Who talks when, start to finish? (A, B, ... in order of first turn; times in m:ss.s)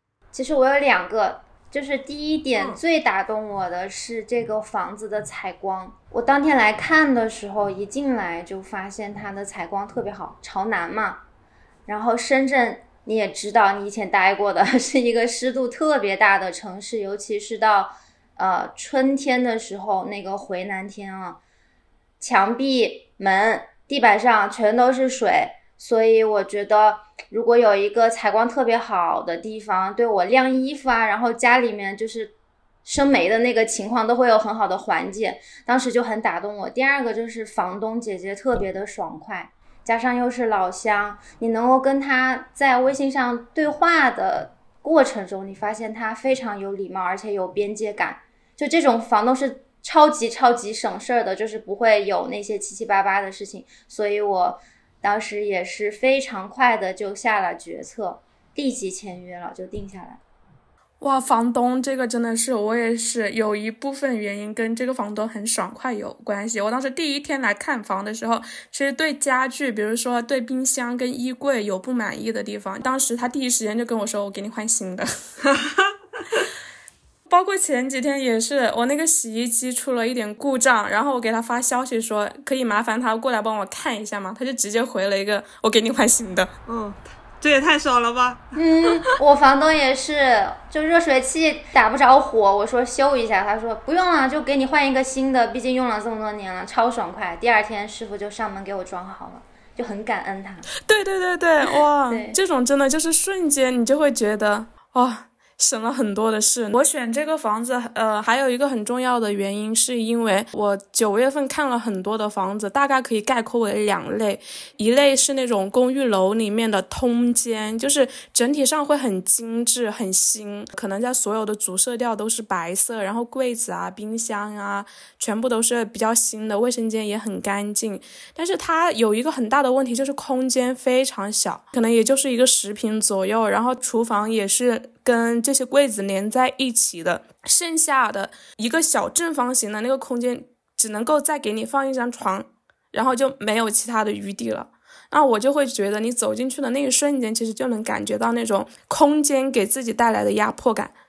0:00.3-0:11.2 A
0:11.9-0:21.4 A
0:22.2-0:32.3 A
0:32.8-1:00.2 A
1:01.0-1:15.1 B
1:15.4-1:16.4 C
1:17.3-1:26.5 B
1:26.7-1:29.0 C
1:28.6-1:40.7 A
1:40.8-2:31.0 B
1:42.1-1:42.4 A